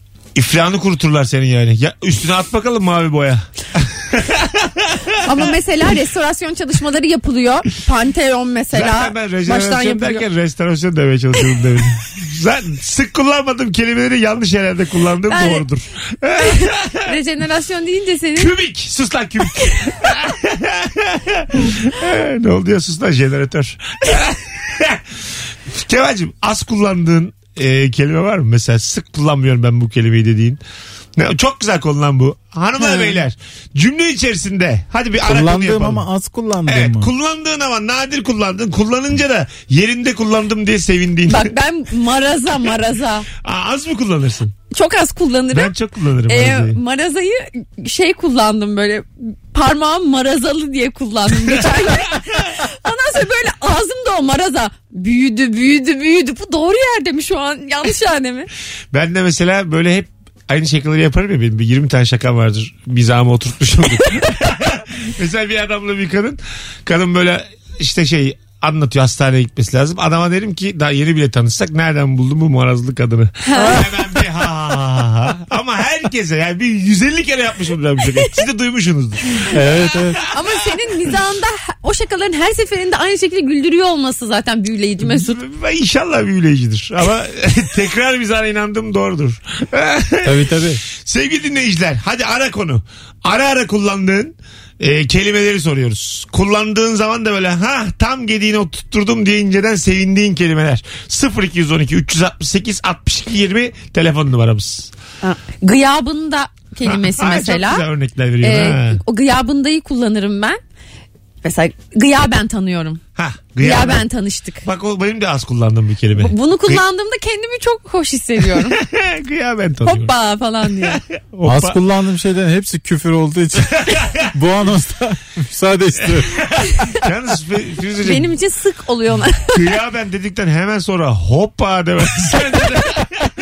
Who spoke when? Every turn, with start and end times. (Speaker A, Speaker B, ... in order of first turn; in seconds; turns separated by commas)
Speaker A: 0.3-5.0, Speaker B: 5.2-10.2, Speaker A: 8.7-17.1, Speaker B: 15.3-15.7, Speaker B: 16.4-18.5, Speaker A: 18.4-25.0, Speaker A: 25.7-30.6, Speaker A: 31.2-36.1, Speaker B: 32.8-33.2, Speaker C: 35.2-37.1, Speaker A: 36.7-41.5, Speaker B: 41.3-43.3, Speaker A: 43.4-44.5, Speaker B: 44.7-45.7, Speaker A: 45.5-46.8, Speaker B: 46.3-58.5, Speaker A: 51.6-52.1, Speaker A: 58.9-79.6, Speaker B: 73.5-73.9, Speaker C: 79.5-80.2, Speaker B: 80.3-85.4, Speaker A: 85.0-104.9, Speaker C: 90.2-90.8, Speaker B: 105.2-107.8, Speaker A: 106.8-109.0, Speaker B: 108.4-110.6, Speaker B: 111.4-113.0, Speaker A: 113.2-114.1, Speaker B: 113.6-114.7, Speaker A: 114.6-116.8, Speaker B: 116.2-118.8, Speaker A: 118.7-120.1, Speaker B: 119.9-121.0, Speaker A: 120.8-121.8, Speaker C: 121.4-126.6, Speaker A: 123.8-124.3, Speaker A: 127.0-128.3, Speaker B: 128.0-129.6, Speaker A: 129.5-133.3